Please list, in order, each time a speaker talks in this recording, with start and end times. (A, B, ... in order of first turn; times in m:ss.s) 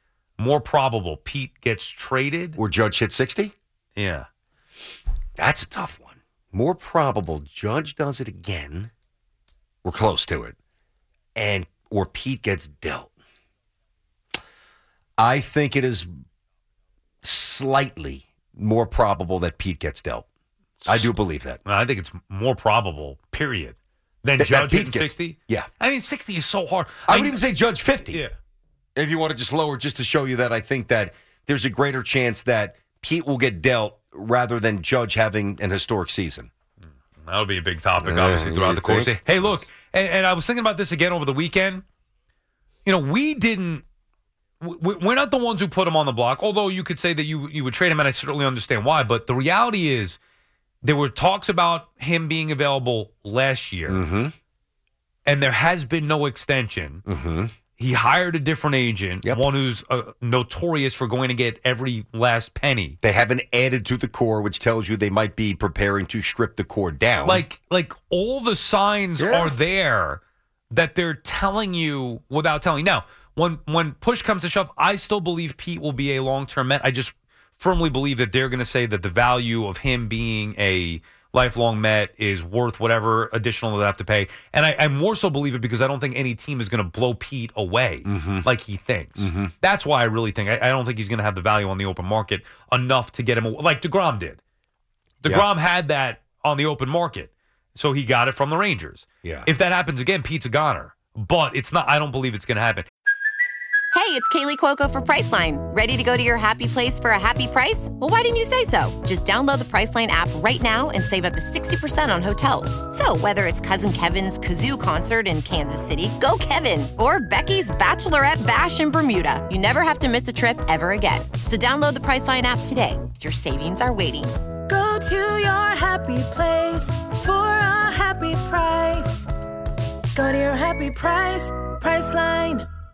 0:00.4-0:02.6 A
0:02.6-0:03.5 B
0:04.0-0:04.3 A
0:05.4-0:08.9 B
0:09.8-0:10.5 B
0:11.3-0:13.1 B
0:15.2-0:16.1 B
0:17.2-0:20.2 B
0:20.8-0:21.1 A
0:20.8-0:21.6 B
0:21.6-0:27.4 A
0:24.4-0:25.7 B
0:27.1-0:28.2 B
0:28.1-0:28.3 A
0:29.0-0:36.5 B
0:37.2-0:41.8 A
0:38.0-0:39.6 B
0:42.8-0:43.8 A
0:44.6-0:50.2 A
0:50.8-0:54.0 A
0:53.9-0:54.3 B
0:55.2-0:57.0 A
0:57.1-0:57.5 B
0:57.8-1:03.0 A
1:03.0-1:07.4 B
1:07.2-1:34.4 A
1:09.2-1:09.5 B
1:28.0-1:28.5 B
1:29.2-1:29.5 B
1:35.2-1:42.9 A
1:35.2-1:35.5 B
1:39.2-1:39.5 B
1:43.9-2:04.4 C
2:04.7-2:09.3 D
2:10.1-2:12.7 D